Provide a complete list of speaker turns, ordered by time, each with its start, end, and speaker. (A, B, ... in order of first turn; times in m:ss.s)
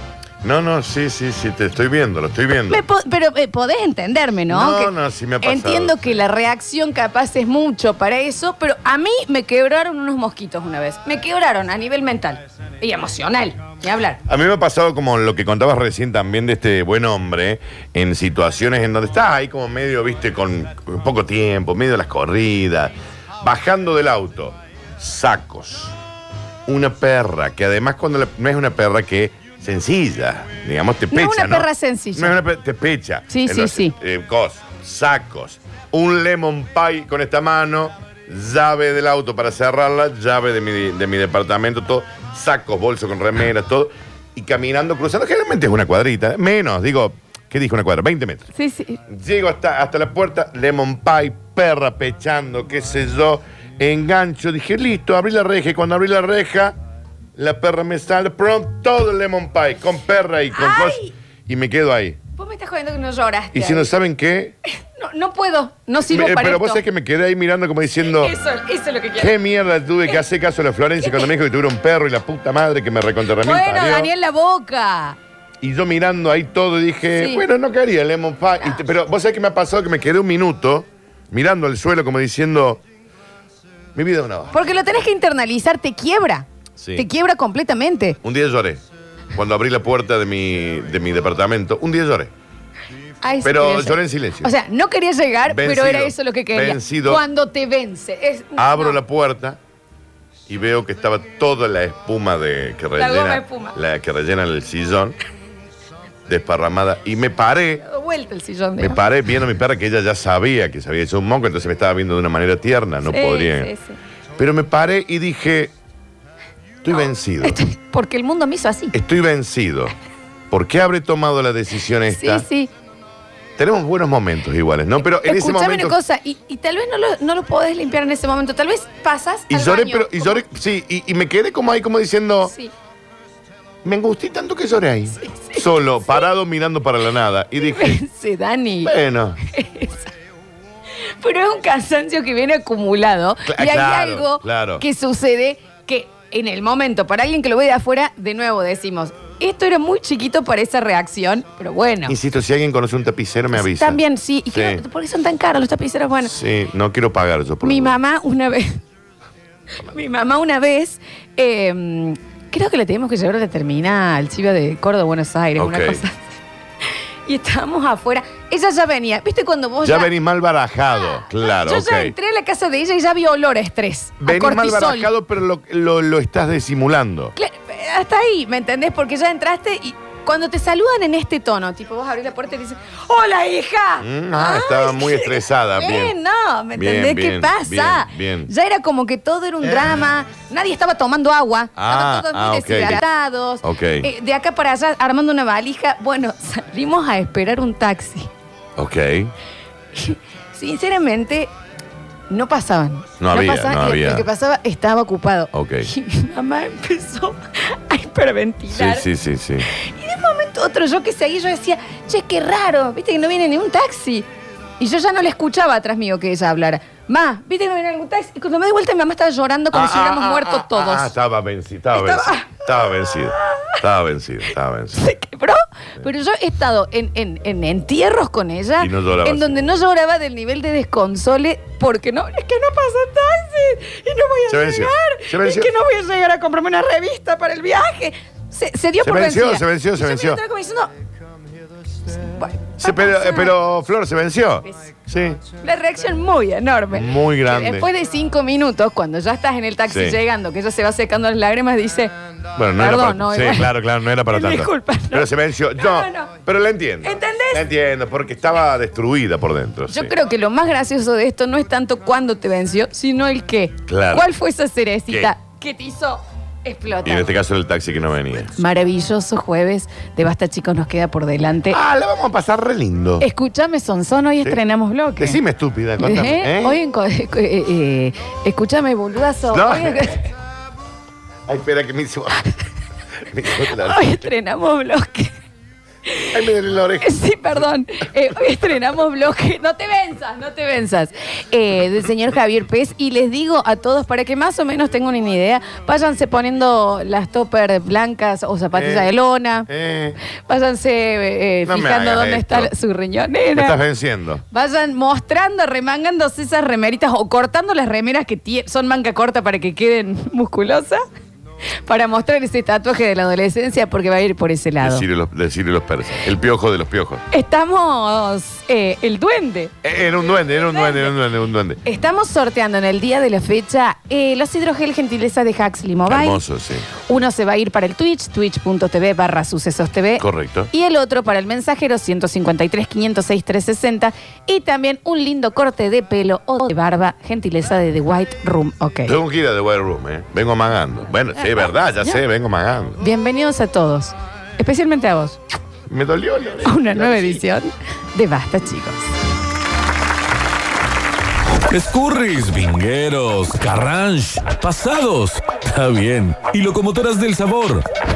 0:00.4-0:02.8 A
0:02.7-0:14.2 B
0:04.5-0:06.2 A
0:14.2-0:25.9 A
0:26.7-0:48.5 A
0:31.1-0:32.3 B
0:33.3-0:33.9 B
0:48.5-0:49.0 B
0:49.1-0:56.8 A
0:57.4-1:02.2 A
1:00.5-1:01.1 B
1:02.3-1:03.9 B
1:03.5-1:04.6 A
1:04.8-1:06.8 B
1:06.1-1:08.3 A
1:08.0-1:09.3 B
1:09.2-1:14.1 A
1:11.0-1:11.3 B
1:13.4-1:15.2 B
1:15.6-1:22.8 A
1:17.1-1:17.4 B
1:23.9-1:24.7 A
1:24.5-1:28.2 B
1:26.8-1:27.0 A
1:28.2-1:28.8 A
1:29.3-1:32.3 A
1:33.2-1:39.0 B
1:33.4-1:34.5 A
1:35.5-1:37.2 A
1:38.6-1:39.6 A
1:40.5-1:45.2 A
1:43.0-1:43.7 B
1:46.3-1:47.8 A
1:47.8-1:49.0 B
1:48.8-1:53.7 A
1:53.0-1:54.0 B
1:54.4-1:55.7 A
1:56.8-1:57.6 A
1:56.9-1:58.9 B
1:58.9-1:59.9 A
2:00.5-2:02.4 A
2:02.1-2:02.7 B
2:03.6-2:06.0 A
2:05.2-2:10.4 B
2:09.5-2:12.5 A
2:12.4-2:12.7 B
2:13.8-2:18.0 A
2:15.2-2:16.2 B
2:17.6-2:20.1 B
2:18.8-2:19.4 A
2:21.0-2:32.1 B
2:23.4-2:24.8 A
2:32.1-2:34.0 A
2:33.5-2:36.3 B
2:34.5-2:34.8 A
2:36.2-2:38.0 A
2:37.6-2:38.8 B
2:39.8-2:46.4 B
2:45.6-2:46.0 A
2:47.2-2:50.1 B
2:49.8-2:52.1 A
2:51.0-2:55.1 B
2:54.2-2:57.3 A
2:57.4-3:18.3 B
3:04.0-3:06.1 A
3:06.7-3:08.5 A
3:11.8-3:13.0 A
3:13.6-3:14.1 A
3:18.8-3:19.3 A
3:20.0-3:21.5 B
3:22.3-3:29.0 B
3:23.2-3:24.3 A
3:25.5-3:25.9 A
3:28.7-3:29.7 A
3:29.7-3:34.3 B
3:34.8-3:41.1 B
3:39.7-3:45.1 A
3:41.9-3:42.6 B
3:43.4-3:43.7 B
3:45.0-4:00.9 B
3:48.8-3:49.6 A
3:54.5-3:55.7 A
3:59.0-4:00.4 A
4:02.1-4:03.5 B
4:02.8-4:05.4 A
4:04.6-4:04.9 B
4:05.6-4:12.1 B
4:06.9-4:07.9 A
4:09.9-4:10.2 A
4:12.6-4:20.1 A
4:12.8-4:13.7 B
4:14.2-4:16.3 B
4:17.0-4:17.6 B
4:19.9-4:27.3 B
4:23.9-4:24.3 A
4:27.0-4:28.5 A
4:28.5-4:31.8 B
4:31.7-4:33.2 A
4:33.2-4:35.4 B
4:35.2-4:36.8 A
4:36.0-4:40.3 B
4:39.5-4:40.2 A
4:41.5-4:42.5 A
4:43.2-4:44.3 A
4:43.6-4:45.4 B
4:46.0-4:46.4 B
4:46.3-4:47.2 A
4:47.0-4:59.7 B
4:58.7-4:59.1 A
4:59.7-5:00.2 A
5:00.4-5:03.8 B
5:01.6-5:02.7 A
5:03.5-5:04.4 A
5:04.5-5:11.0 B
5:11.8-5:15.0 B
5:14.8-5:17.2 A
5:17.3-5:19.7 B
5:19.8-5:21.8 A
5:20.3-5:21.2 B
5:21.8-5:26.4 B
5:26.1-5:26.9 A
5:27.0-5:39.1 B
5:30.2-5:30.7 A
5:39.0-5:43.0 A
5:43.0-5:45.4 B
5:45.9-5:47.4 A
5:46.6-5:49.0 B
5:51.6-5:57.8 C